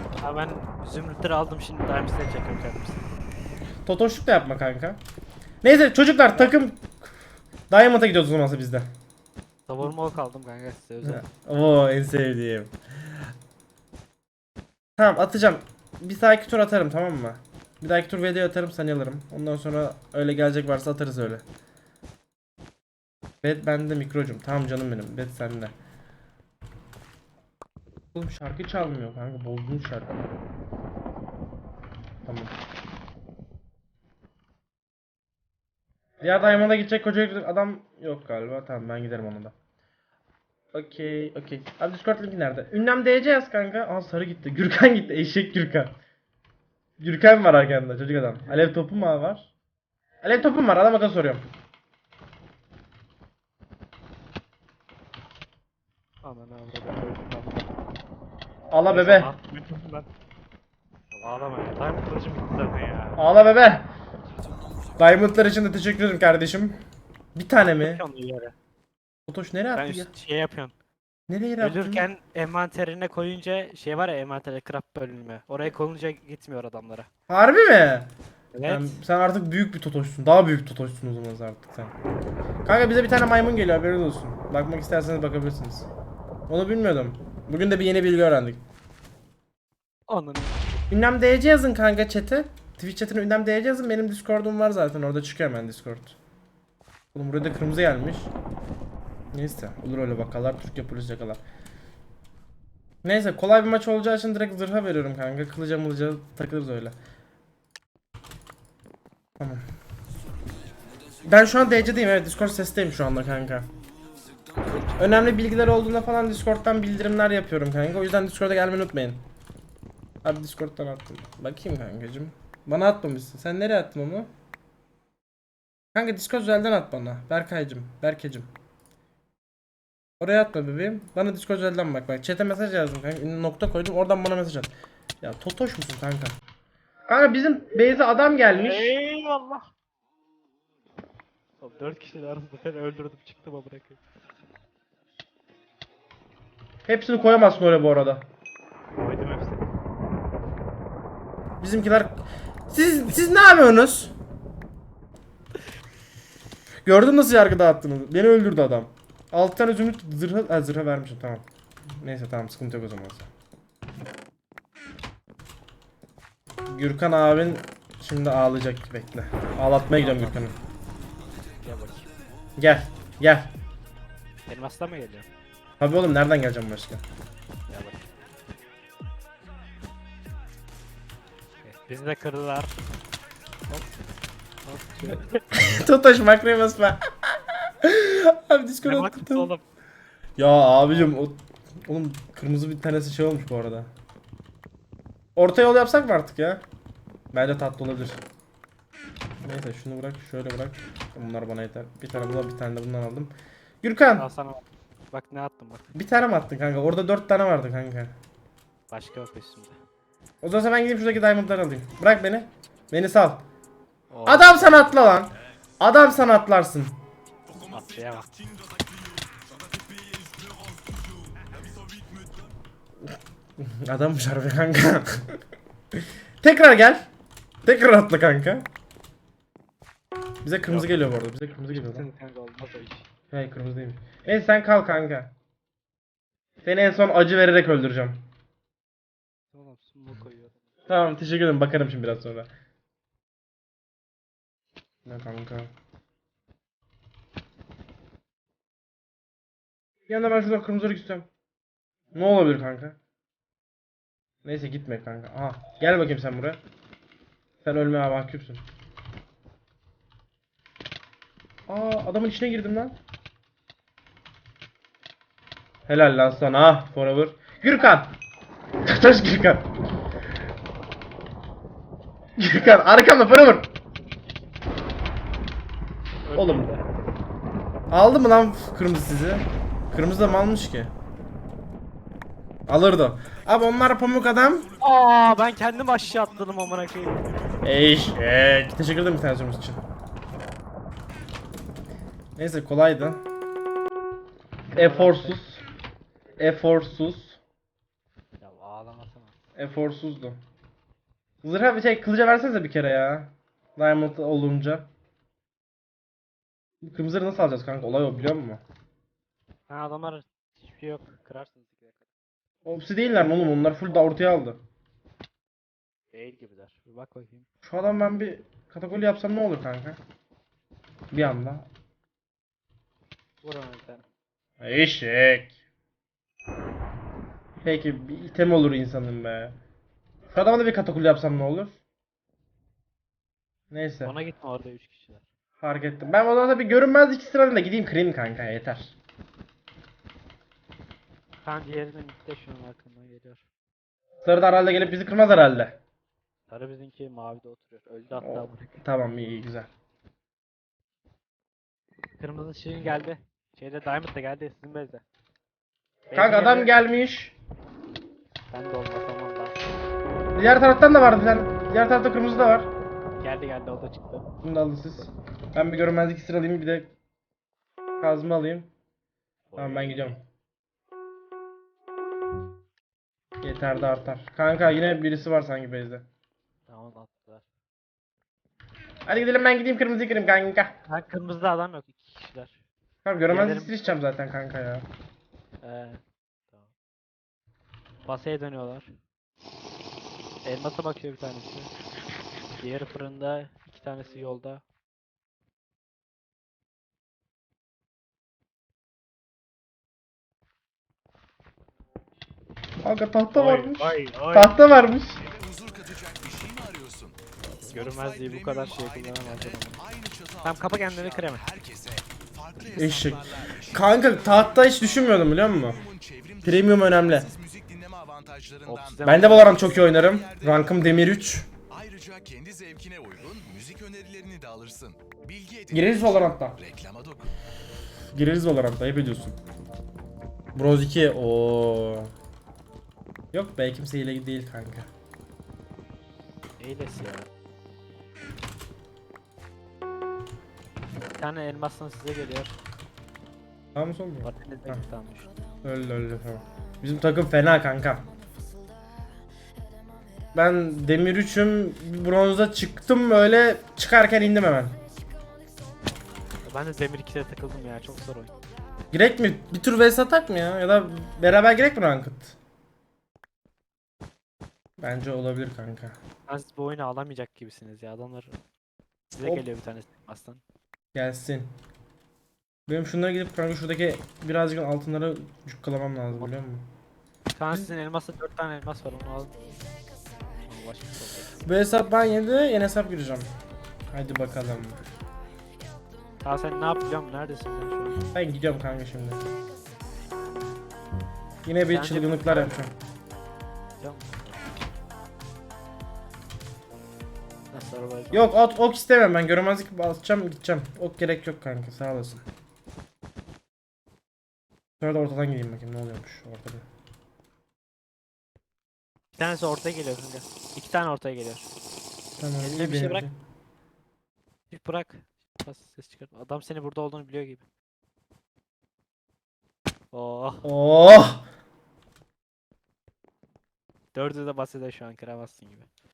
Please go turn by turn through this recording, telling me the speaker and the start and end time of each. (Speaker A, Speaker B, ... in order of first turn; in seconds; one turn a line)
Speaker A: 0.2-3.1
Speaker B: 3.9-5.0
Speaker B: 5.6-7.1
Speaker A: 6.3-6.6
Speaker B: 7.7-8.9
Speaker A: 9.7-11.3
Speaker B: 11.0-12.8
Speaker B: 15.0-21.4
Speaker B: 23.4-25.8
Speaker B: 28.1-30.2
Speaker B: 32.2-32.5
Speaker B: 36.2-39.5
Speaker B: 40.7-46.0
Speaker B: 47.0-49.5
Speaker B: 50.2-51.5
Speaker A: 56.2-57.7
Speaker B: 58.7-59.3
Speaker A: 58.9-60.1
Speaker A: 61.1-63.3
Speaker B: 63.2-63.9
Speaker B: 65.0-66.8
Speaker B: 67.3-68.0
Speaker A: 67.8-68.5
Speaker B: 69.3-70.1
Speaker A: 69.8-70.7
Speaker B: 71.3-72.1
Speaker A: 71.6-77.1
Speaker B: 77.3-78.1
Speaker A: 78.5-79.0
Speaker B: 78.7-82.0
Speaker B: 82.6-85.9
Speaker B: 86.5-88.6
Speaker A: 90.1-90.6
Speaker B: 90.9-96.2
Speaker B: 97.1-98.3
Speaker B: 99.3-101.4
Speaker B: 103.0-107.0
Speaker B: 109.4-109.6
Speaker B: 111.2-113.7
Speaker B: 114.9-119.2
Speaker B: 120.2-124.3
Speaker B: 125.9-128.5
Speaker B: 130.2-136.4
Speaker B: 137.1-138.9
Speaker A: 138.5-139.7
Speaker A: 141.6-144.0
Speaker B: 146.9-148.3
Speaker A: 149.0-149.6
Speaker B: 151.6-154.1
Speaker B: 156.8-163.3
Speaker B: 166.7-170.6
Speaker A: 169.9-170.6
Speaker A: 171.6-172.1
Speaker B: 172.6-173.5
Speaker A: 174.5-175.3
Speaker B: 175.8-177.0
Speaker A: 177.7-178.1
Speaker A: 181.6-182.7
Speaker A: 184.7-185.4
Speaker B: 185.5-189.5
Speaker A: 188.8-189.6
Speaker B: 190.4-193.9
Speaker B: 195.3-196.6
Speaker B: 197.3-198.2
Speaker B: 199.4-204.3
Speaker A: 204.2-205.9
Speaker B: 205.9-208.1
Speaker A: 208.9-209.8
Speaker B: 210.4-213.4
Speaker A: 214.1-214.9
Speaker B: 214.3-217.0
Speaker C: 217.5-222.5
Speaker A: 217.7-218.3
Speaker B: 223.1-225.4
Speaker B: 225.9-227.1
Speaker B: 227.7-228.7
Speaker B: 230.4-232.1
Speaker A: 230.7-231.1
Speaker A: 231.7-233.1
Speaker B: 233.3-235.3
Speaker B: 236.6-238.3
Speaker A: 239.5-240.6
Speaker B: 240.9-242.5
Speaker B: 245.1-245.7
Speaker B: 250.1-251.3
Speaker B: 252.1-253.0
Speaker B: 254.4-256.6
Speaker B: 257.6-258.7
Speaker B: 261.7-263.0
Speaker B: 265.9-268.2
Speaker B: 268.9-269.7
Speaker B: 272.4-273.7
Speaker A: 276.3-276.8
Speaker B: 276.4-276.7
Speaker B: 277.9-280.9
Speaker B: 282.7-284.7
Speaker A: 284.8-287.2
Speaker B: 287.6-289.8
Speaker B: 292.4-293.2
Speaker A: 294.7-295.4
Speaker B: 294.7-295.6
Speaker B: 296.4-297.4
Speaker A: 298.4-299.4
Speaker B: 299.6-300.4
Speaker B: 301.4-304.9
Speaker B: 306.8-308.6
Speaker A: 309.7-312.1
Speaker B: 312.6-314.6
Speaker A: 316.1-317.5
Speaker B: 317.6-320.0
Speaker B: 321.1-321.7
Speaker A: 323.4-324.0
Speaker B: 324.6-325.5
Speaker B: 327.6-329.6
Speaker B: 330.3-331.8
Speaker B: 333.7-334.2
Speaker A: 334.0-335.3
Speaker B: 335.6-338.9
Speaker A: 341.4-343.4
Speaker B: 344.2-345.8
Speaker A: 346.5-348.8
Speaker B: 348.2-349.7
Speaker A: 352.2-355.0
Speaker A: 356.1-356.7
Speaker B: 356.1-357.4
Speaker A: 358.5-359.6
Speaker B: 360.3-362.7
Speaker A: 363.2-364.3
Speaker B: 364.4-366.9
Speaker B: 368.0-368.7
Speaker A: 369.5-370.1
Speaker B: 369.6-370.2
Speaker B: 373.4-376.1
Speaker A: 376.7-377.4
Speaker B: 379.1-380.7
Speaker A: 380.9-382.6
Speaker B: 383.1-384.9
Speaker A: 383.3-383.7
Speaker A: 385.6-386.0
Speaker A: 388.1-388.9
Speaker A: 390.4-391.7
Speaker A: 392.6-394.6
Speaker B: 402.8-405.2
Speaker A: 403.3-404.6
Speaker C: 405.2-420.8
Speaker A: 407.6-409.8
Speaker A: 410.4-411.4
Speaker B: 412.7-415.8
Speaker B: 416.4-417.3
Speaker A: 418.6-419.6
Speaker B: 419.0-421.5
Speaker C: 421.7-427.3
Speaker B: 425.7-426.6
Speaker B: 428.1-429.4
Speaker B: 430.6-432.1
Speaker B: 433.3-434.9
Speaker A: 436.6-437.3
Speaker A: 441.2-442.6
Speaker B: 443.8-444.8
Speaker A: 444.2-445.3
Speaker B: 445.6-448.1
Speaker B: 450.3-454.8
Speaker A: 456.5-458.3
Speaker B: 458.9-462.4
Speaker B: 464.8-466.0
Speaker A: 466.3-468.4
Speaker A: 469.1-470.4
Speaker B: 470.9-471.5
Speaker B: 472.7-476.7
Speaker A: 477.3-479.6
Speaker A: 480.5-481.4
Speaker B: 481.4-483.3
Speaker B: 483.9-484.8
Speaker A: 486.2-488.0
Speaker B: 488.1-489.2
Speaker B: 491.4-492.7
Speaker A: 491.6-492.6
Speaker A: 493.8-494.6
Speaker A: 497.5-498.3
Speaker B: 498.1-502.2
Speaker B: 504.8-506.7
Speaker A: 509.1-511.5
Speaker B: 512.2-513.1
Speaker A: 512.4-513.1
Speaker A: 514.5-517.4
Speaker A: 519.9-520.5
Speaker B: 520.4-521.2
Speaker A: 523.9-525.7